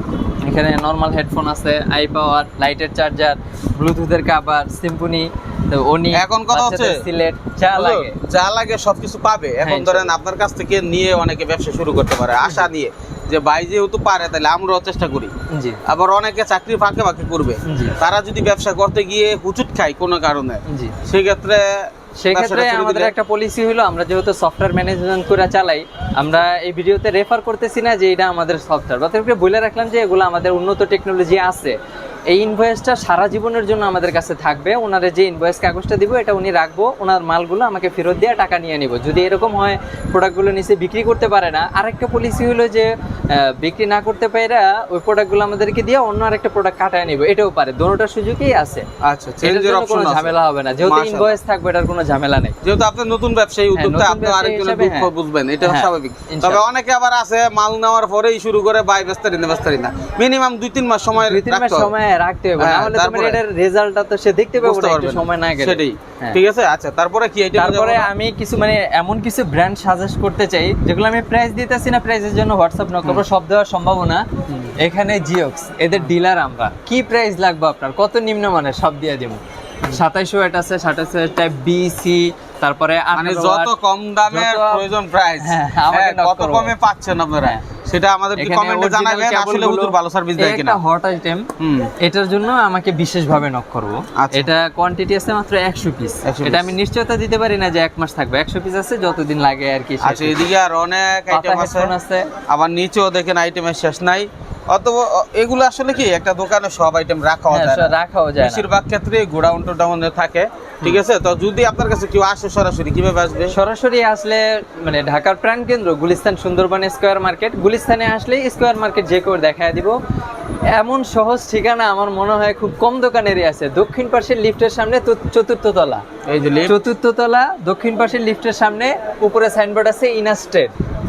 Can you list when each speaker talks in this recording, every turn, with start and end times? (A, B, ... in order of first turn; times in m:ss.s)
0:00.4-0:08.2 A
0:06.1-0:07.0 B
0:07.7-0:15.3 B
0:09.6-0:10.2 A
0:15.5-0:15.8 A
0:15.9-0:23.1 B
0:17.7-0:18.0 A
0:20.7-0:21.0 A
0:22.2-0:31.8 A
0:32.3-0:48.9 A
0:49.0-0:51.3 B
0:49.4-0:52.6 A
0:52.6-1:01.9 B
0:53.8-0:55.1 A
0:55.6-0:56.7 A
1:01.2-1:06.4 A
1:02.6-1:03.4 B
1:04.6-1:08.1 B
1:07.5-1:14.3 A
1:14.8-1:23.7 A
1:23.2-1:30.8 B
1:24.3-1:24.9 A
1:25.4-1:26.7 A
1:28.4-1:31.5 A
1:31.6-1:31.9 B
1:32.0-1:40.5 A
1:34.2-1:34.5 B
1:36.2-1:36.7 B
1:40.0-1:41.9 B
1:41.3-1:42.3 A
1:42.5-1:53.6 B
1:47.5-1:48.7 A
1:53.5-2:00.0 A
2:00.7-2:06.0 A
2:06.3-2:06.8 B
2:06.6-2:10.7 A